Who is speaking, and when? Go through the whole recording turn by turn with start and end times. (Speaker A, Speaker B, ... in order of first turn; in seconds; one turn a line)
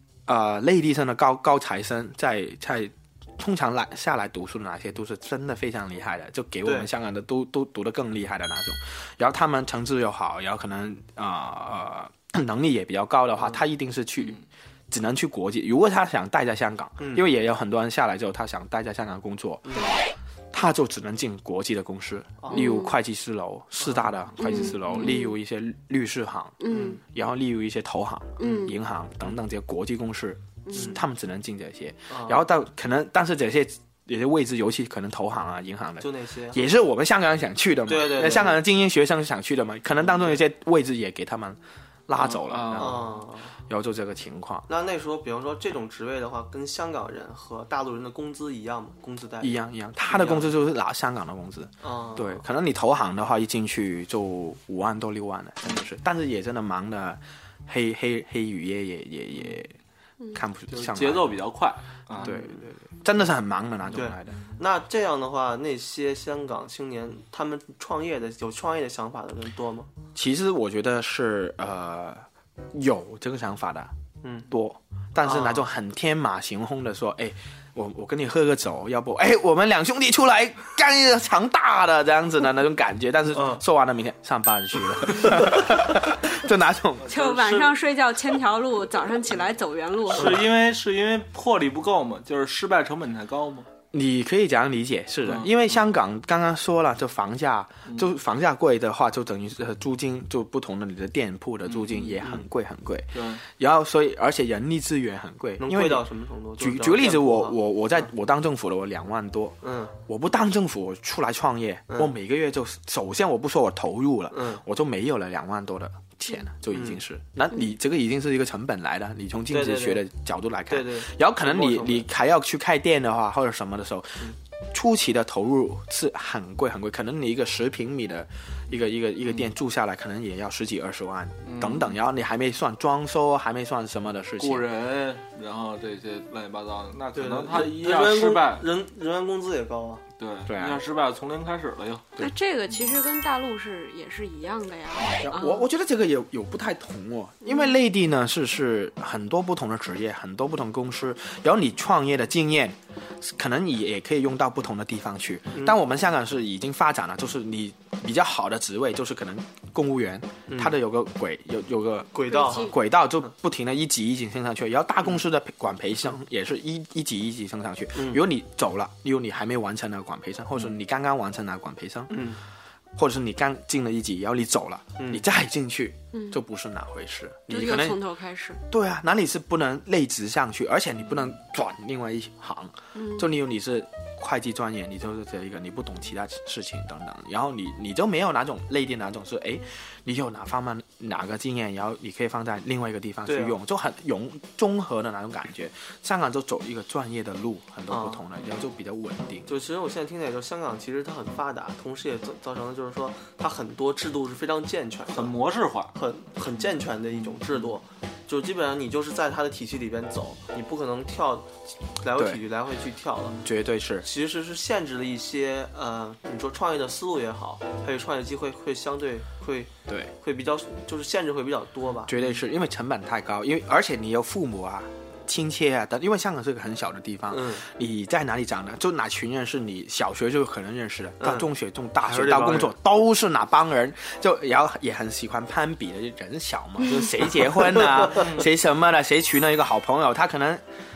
Speaker A: 0.3-19.9
Speaker B: 19.7-20.0
Speaker A: 20.5-44.7
Speaker B: 22.4-22.7
Speaker C: 22.5-22.9
Speaker B: 23.8-24.5
Speaker C: 24.4-25.4
Speaker C: 26.6-27.0
Speaker B: 26.7-27.0
Speaker C: 28.4-28.7
Speaker B: 28.4-28.7
Speaker C: 30.6-31.0
Speaker B: 32.1-32.4
Speaker B: 36.0-36.6
Speaker B: 37.9-38.6
Speaker D: 42.2-43.1
Speaker B: 42.8-43.5
Speaker B: 44.7-50.5
Speaker A: 49.4-59.7
Speaker B: 51.8-52.4
Speaker A: 60.3-61.4
Speaker D: 60.7-62.4
Speaker B: 62.2-62.6
Speaker A: 62.2-64.4
Speaker B: 63.9-69.9
Speaker A: 70.1-73.9
Speaker B: 74.2-74.5
Speaker A: 74.5-87.1
Speaker B: 75.2-75.7
Speaker B: 83.3-83.6
Speaker C: 87.0-90.3
Speaker D: 87.1-87.7
Speaker D: 90.1-93.7
Speaker B: 90.2-90.4
Speaker A: 93.9-106.0
Speaker D: 95.2-95.5
Speaker D: 101.7-102.2
Speaker D: 103.1-103.4
Speaker B: 105.6-107.5
Speaker A: 106.6-134.7
Speaker B: 109.6-109.9
Speaker B: 114.3-114.6
Speaker B: 116.7-117.0
Speaker B: 119.5-120.0
Speaker B: 120.7-122.0
Speaker D: 131.4-131.9
Speaker D: 134.4-138.7
Speaker B: 137.1-140.0
Speaker D: 140.2-142.1
Speaker A: 140.5-140.8
Speaker C: 142.2-145.7
Speaker A: 145.1-172.2
Speaker B: 160.5-160.7
Speaker B: 162.1-162.7
Speaker C: 162.3-162.7
Speaker B: 167.9-168.2
Speaker B: 172.1-172.4
Speaker A: 172.9-178.0
Speaker C: 177.5-178.6
Speaker A: 178.7-199.5
Speaker C: 182.9-183.3
Speaker B: 193.2-193.5
Speaker B: 197.9-198.2
Speaker B: 199.4-205.4
Speaker D: 205.1-205.9
Speaker B: 205.9-213.4
Speaker A: 213.4-214.1
Speaker B: 214.0-222.1
Speaker A: 219.9-220.1
Speaker A: 222.1-240.6
Speaker B: 227.3-227.6
Speaker B: 231.2-231.5
Speaker B: 232.0-232.7
Speaker D: 238.1-238.4